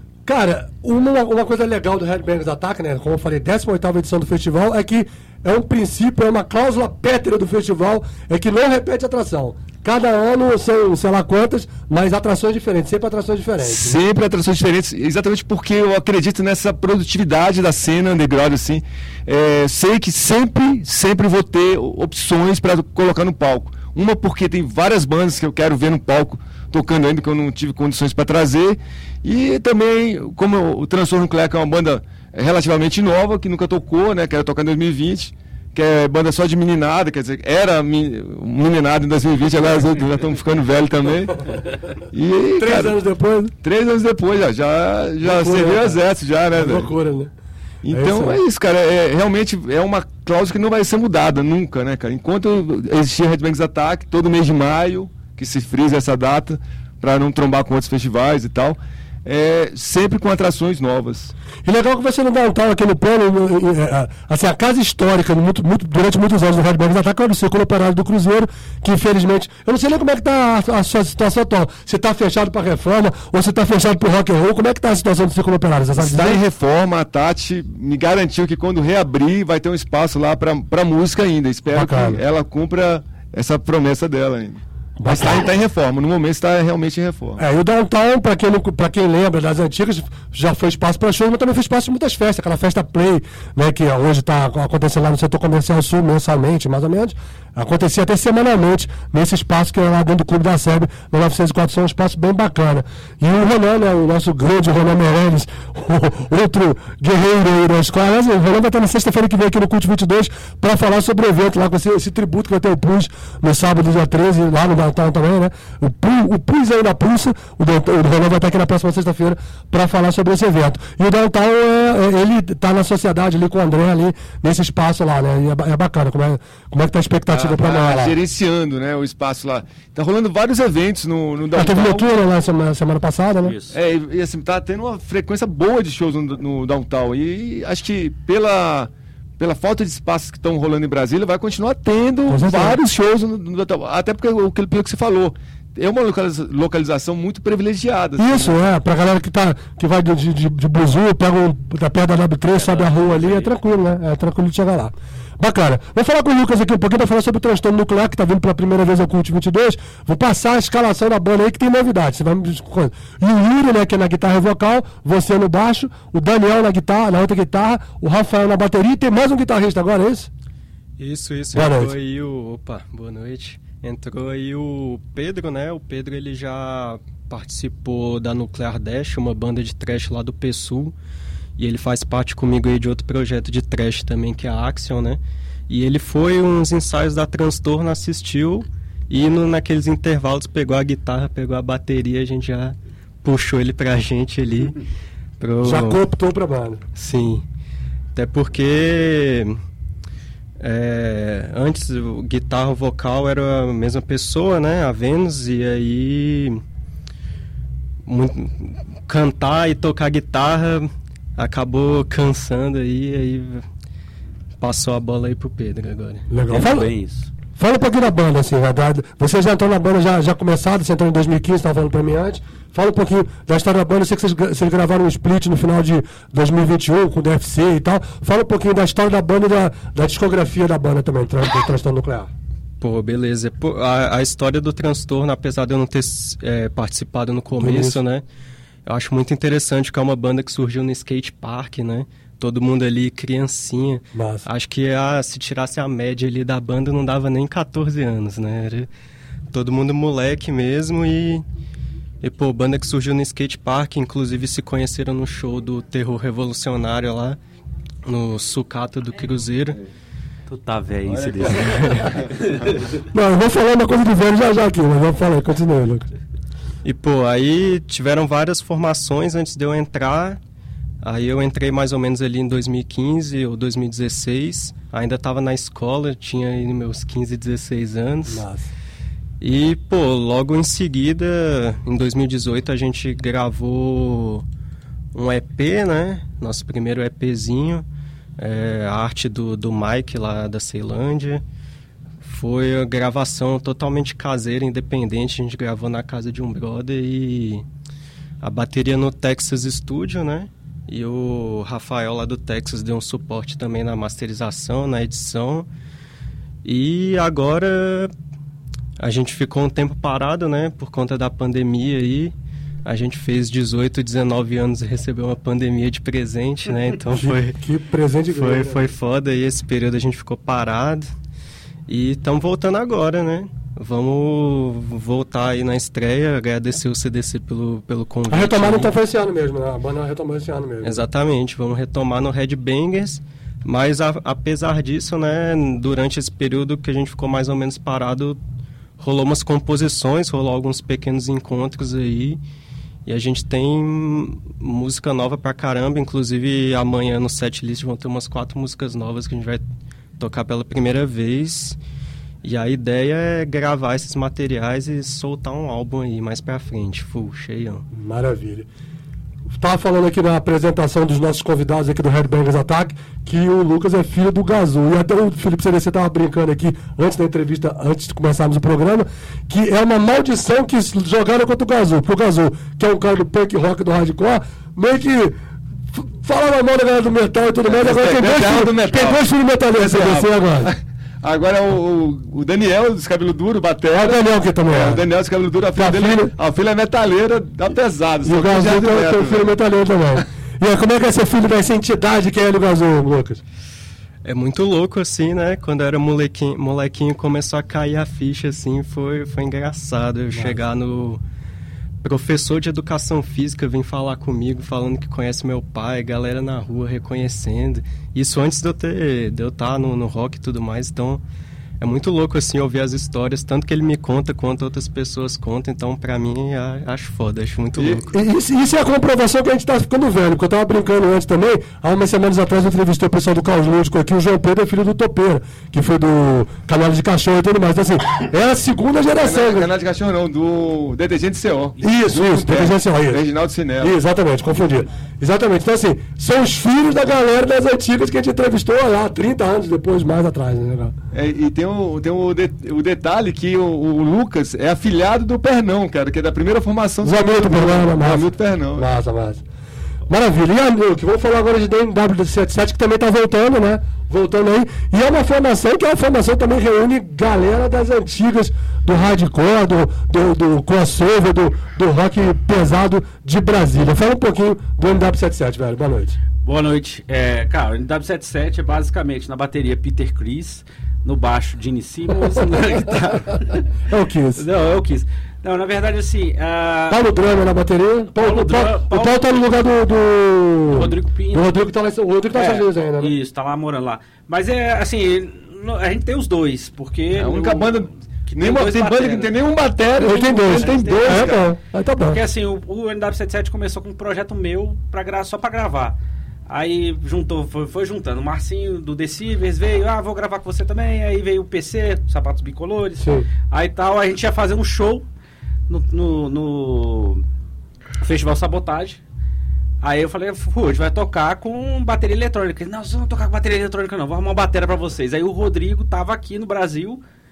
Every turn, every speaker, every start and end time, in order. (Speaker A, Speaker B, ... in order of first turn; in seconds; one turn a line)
Speaker A: 0.2-14.0
Speaker B: 13.6-41.5
Speaker B: 42.1-43.0
Speaker A: 42.6-43.5
Speaker B: 43.6-46.9
Speaker A: 45.2-46.0
Speaker A: 46.5-47.3
Speaker B: 47.8-61.3
Speaker A: 47.9-48.4
Speaker A: 61.6-76.4
Speaker B: 76.0-87.4
Speaker A: 81.7-82.2
Speaker A: 85.0-85.5
Speaker A: 87.4-128.1
Speaker B: 127.3-132.1
Speaker A: 131.5-133.5
Speaker C: 133.4-133.8
Speaker B: 133.7-148.6
Speaker A: 142.3-142.8
Speaker A: 148.2-170.3
Speaker C: 152.5-153.6
Speaker D: 171.0-180.9
Speaker A: 171.5-171.9
Speaker D: 181.6-194.8
Speaker D: 195.4-196.0
Speaker A: 195.6-196.8
Speaker D: 196.9-197.4
Speaker D: 198.1-199.6
Speaker D: 200.6-206.6
Speaker D: 208.1-213.7
Speaker D: 214.6-216.3
Speaker A: 216.3-216.9
Speaker C: 216.5-217.3
Speaker A: 217.6-232.3
Speaker D: 232.8-238.2
Speaker A: 237.6-238.0
Speaker D: 238.8-248.9
Speaker A: 244.1-244.4
Speaker D: 249.5-251.4
Speaker D: 252.2-257.4
Speaker D: 258.1-259.8
Speaker C: 260.5-262.7
Speaker A: 263.1-266.1
Speaker D: 266.8-270.4
Speaker D: 271.0-278.4
Speaker A: 278.3-278.7
Speaker D: 279.4-284.4
Speaker D: 285.1-287.8
Speaker D: 288.4-291.4
Speaker D: 292.2-297.6
Speaker D: 298.4-305.7
Speaker D: 306.6-308.1
Speaker D: 309.0-312.3
Speaker D: 312.8-317.6
Speaker A: 317.2-318.9
Speaker D: 318.3-321.1
Speaker D: 321.9-328.9
Speaker A: 328.3-331.0
Speaker D: 330.8-338.4
Speaker D: 339.0-342.4
Speaker D: 343.1-349.6
Speaker D: 350.2-351.8
Speaker D: 352.4-357.9
Speaker A: 357.9-358.7
Speaker A: 359.6-375.3
Speaker A: 375.9-380.7
Speaker B: 377.6-389.6
Speaker A: 383.9-385.0
Speaker A: 385.7-386.3
Speaker A: 388.2-393.4
Speaker D: 394.2-401.2
Speaker D: 402.0-411.2
Speaker D: 411.8-418.1
Speaker B: 417.8-418.0
Speaker A: 418.1-429.7
Speaker B: 429.1-434.0
Speaker A: 431.8-433.2
Speaker A: 433.8-440.9
Speaker B: 441.1-448.9
Speaker A: 447.0-449.4
Speaker A: 450.1-466.2
Speaker C: 466.4-473.6
Speaker A: 472.2-473.4
Speaker A: 473.9-474.4
Speaker C: 474.4-477.0
Speaker A: 476.9-483.1
Speaker C: 478.1-479.4
Speaker C: 480.7-481.7
Speaker C: 482.3-489.3
Speaker B: 487.1-491.5
Speaker C: 490.0-491.5
Speaker A: 490.0-492.2
Speaker C: 492.1-495.9
Speaker C: 496.5-505.1
Speaker A: 503.0-503.3
Speaker C: 505.7-507.2
Speaker C: 508.0-509.0
Speaker C: 509.8-517.0